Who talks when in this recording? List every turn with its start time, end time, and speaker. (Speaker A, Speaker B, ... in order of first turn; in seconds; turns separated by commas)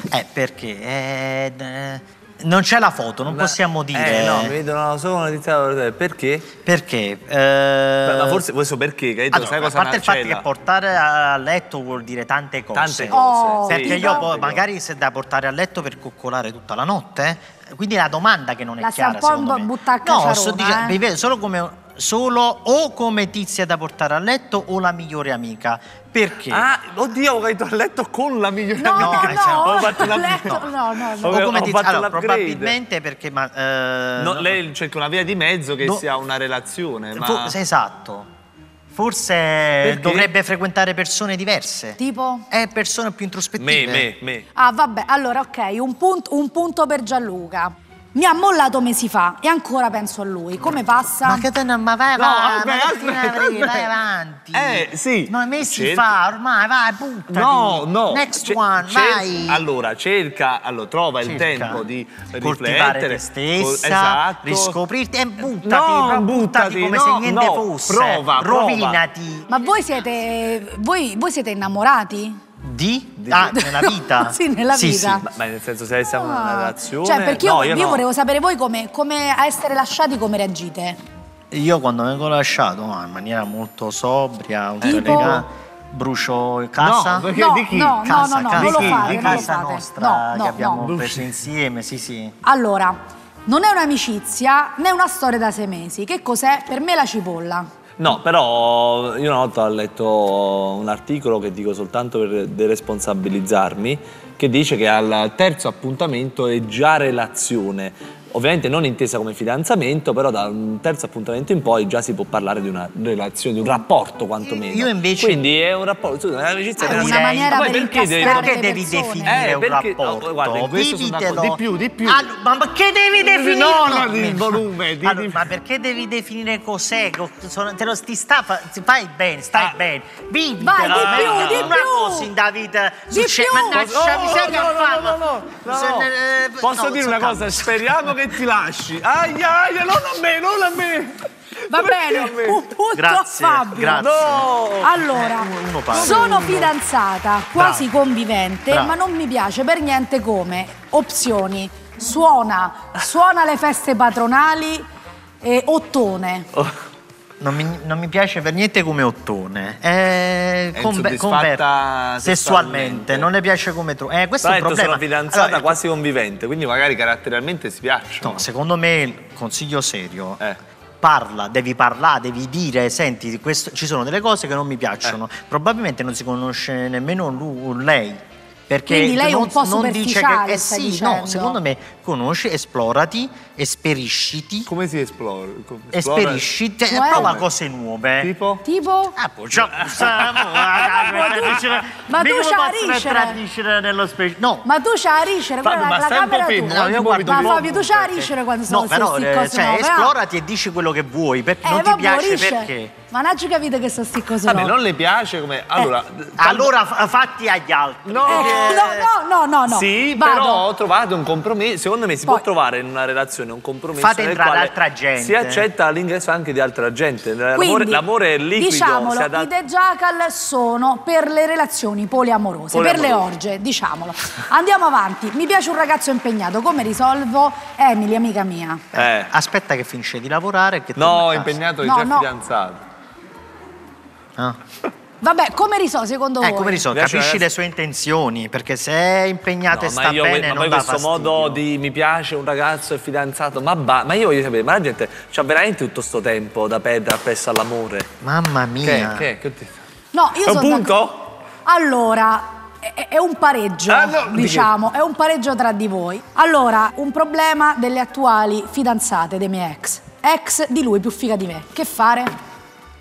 Speaker A: 0.1-4.6, Speaker B: 3.3-6.5, Speaker A: 6.6-8.4, Speaker B: 8.1-10.4, Speaker A: 9.3-26.7, Speaker B: 12.8-14.6, Speaker C: 13.1-14.3, Speaker C: 18.8-21.0, Speaker B: 26.5-32.8, Speaker C: 28.8-31.6, Speaker A: 28.9-34.6, Speaker B: 34.2-37.6, Speaker A: 37.1-38.3, Speaker A: 38.9-42.0, Speaker B: 39.8-40.3, Speaker C: 42.0-42.5, Speaker A: 42.5-44.1, Speaker B: 43.6-44.5, Speaker C: 44.5-51.5, Speaker A: 51.2-59.6, Speaker B: 52.2-54.0, Speaker B: 54.5-56.2, Speaker B: 57.3-64.8, Speaker A: 61.2-61.8, Speaker A: 62.4-69.5, Speaker B: 65.4-69.0, Speaker C: 69.5-72.4, Speaker A: 72.6-75.3, Speaker B: 73.2-73.6, Speaker C: 73.3-75.3, Speaker B: 75.2-78.0, Speaker C: 76.1-81.0, Speaker A: 81.5-87.3, Speaker B: 84.8-85.5, Speaker C: 84.8-85.4, Speaker B: 86.8-89.5, Speaker C: 87.3-90.8, Speaker A: 88.0-92.4, Speaker B: 90.8-91.3, Speaker C: 92.4-97.7, Speaker B: 98.0-118.6, Speaker A: 114.4-115.5, Speaker C: 116.8-119.4, Speaker A: 116.8-117.6, Speaker A: 118.2-138.0, Speaker B: 119.2-122.3, Speaker B: 123.2-125.5, Speaker C: 130.6-132.3, Speaker B: 130.8-131.8, Speaker C: 133.1-133.9, Speaker B: 133.7-142.6, Speaker C: 141.7-144.1, Speaker A: 142.9-146.4, Speaker B: 143.8-144.9, Speaker C: 144.8-154.8, Speaker B: 145.9-146.7, Speaker A: 147.6-147.9, Speaker A: 148.7-149.0, Speaker C: 155.4-156.5, Speaker A: 157.4-161.6, Speaker B: 160.7-163.3, Speaker A: 162.2-165.8, Speaker B: 164.4-168.4, Speaker A: 168.2-170.4, Speaker A: 171.0-184.7, Speaker C: 178.9-181.6, Speaker B: 184.7-186.5, Speaker A: 185.9-188.3, Speaker C: 186.9-187.4, Speaker B: 187.1-187.5, Speaker B: 188.2-188.6, Speaker C: 188.6-189.2, Speaker A: 189.2-194.7, Speaker B: 189.5-191.6, Speaker C: 190.9-193.4, Speaker C: 194.6-200.2, Speaker B: 195.6-197.8, Speaker A: 196.6-202.9, Speaker C: 201.6-204.8, Speaker B: 204.4-206.7, Speaker A: 206.4-209.1, Speaker B: 208.1-208.8, Speaker C: 208.3-210.7, Speaker B: 209.7-219.5, Speaker A: 214.0-215.7, Speaker C: 217.5-228.8, Speaker B: 222.7-223.3, Speaker A: 228.9-231.6, Speaker B: 228.9-229.3, Speaker B: 231.0-232.8, Speaker C: 231.8-232.3, Speaker C: 235.2-236.8, Speaker A: 236.4-241.6, Speaker B: 236.9-237.5, Speaker B: 239.7-248.1, Speaker A: 248.2-249.3, Speaker B: 248.8-249.8, Speaker C: 250.1-250.9, Speaker B: 250.4-251.3, Speaker C: 251.7-262.3, Speaker B: 253.9-254.7